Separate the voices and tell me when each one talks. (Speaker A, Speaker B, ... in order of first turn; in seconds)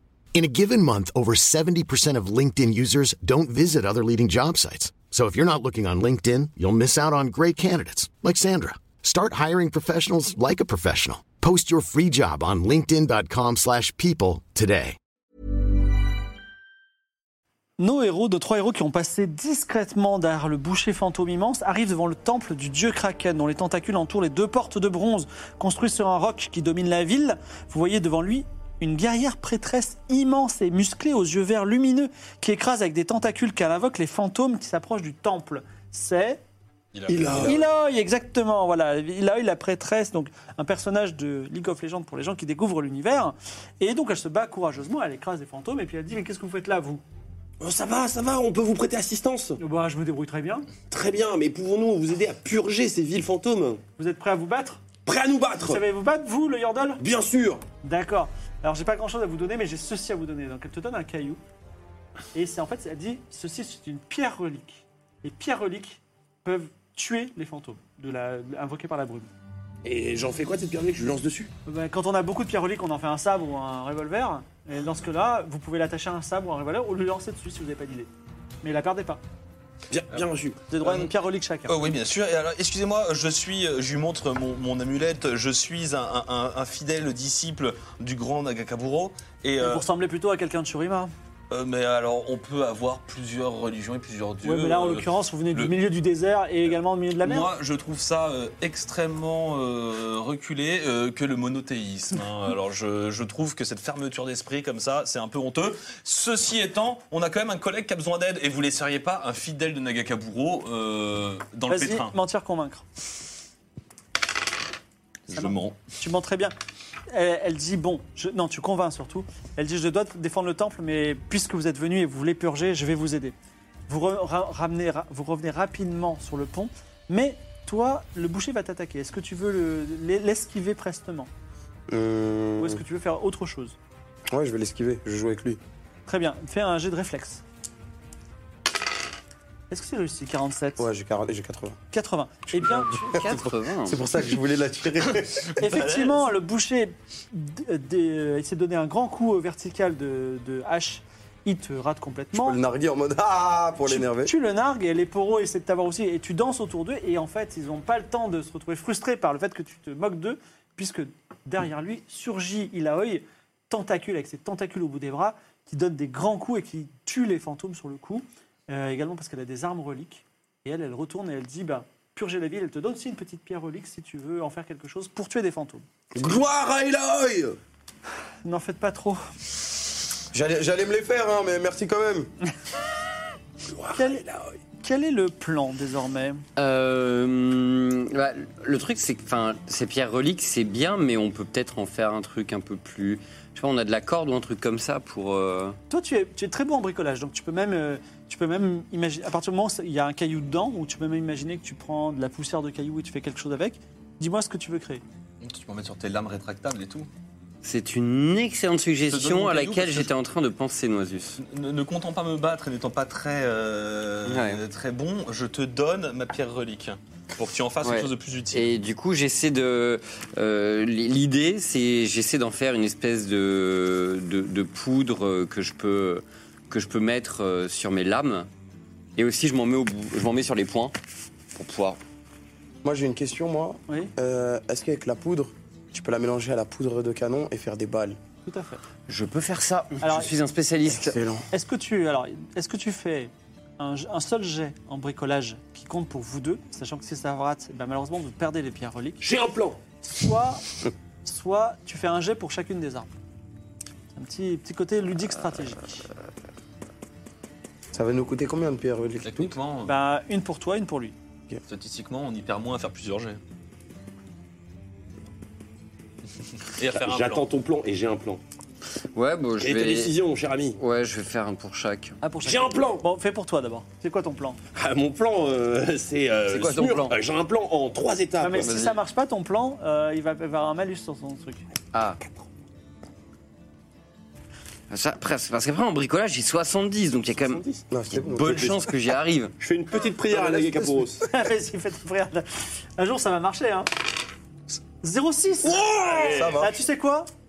Speaker A: 0.3-15.0
Speaker B: 17.8-36.4, 37.4-47.0, 49.6-50.7, 54.0-54.8, 55.6-57.0, 57.8-61.4, 62.3-69.3, 71.7-78.1, 78.6-79.2, 80.7-81.8, 89.6-91.1, 94.4-97.5, 111.7-112.8, 115.3-116.5, 117.1-123.3, 123.9-131.3, 132.6-133.8, 136.1-137.4, 139.7-140.9, 141.9-143.2, 145.6-152.6, 153.9-175.8, 178.4-179.2, 183.9-184.2, 184.8-186.4, 195.9-205.0, 238.5-238.8, 240.0-240.3, 241.5-249.2, 250.0-250.7, 251.2-253.1, 254.1-256.0, 259.9-261.1, 272.2-274.6, 278.4-281.6, 291.3-293.9, 295.0-295.9, 296.6-297.3
Speaker C: 36.9-37.6, 80.8-81.1, 81.7-89.8, 91.5-95.7, 97.2-112.1, 115.3-115.8, 145.6-146.3, 205.4-207.1, 209.1-210.1, 211.4-218.8, 259.2-259.9, 261.7-263.4, 266.6-267.4, 296.1-296.6
Speaker D: 37.1-37.6, 47.6-49.6, 50.9-53.8, 55.0-55.8, 57.0-57.6, 69.8-71.5, 79.9-80.6, 176.2-177.6, 183.7-184.6, 249.2-249.8, 266.9-268.4, 269.6-270.8, 272.4-273.0, 274.8-278.8, 282.0-282.5, 287.3-287.9, 288.4-288.9, 289.6-291.3, 295.6-296.5
Speaker E: 131.9-132.8, 134.3-135.6, 140.8-141.8, 142.5-145.6, 152.3-154.3, 180.3-182.3, 232.8-238.2, 240.9-241.5, 257.9-259.6, 287.9-288.8, 290.3-291.2, 296.2-296.8
Speaker F: 143.0-144.0, 186.6-195.8, 207.6-211.4, 214.2-214.6, 217.8-228.5, 229.2-230.9, 231.5-232.0, 239.1-241.2, 269.1-270.1, 270.8-272.2, 276.5-277.2, 278.6-279.0, 281.9-282.2, 284.9-287.6, 288.1-289.5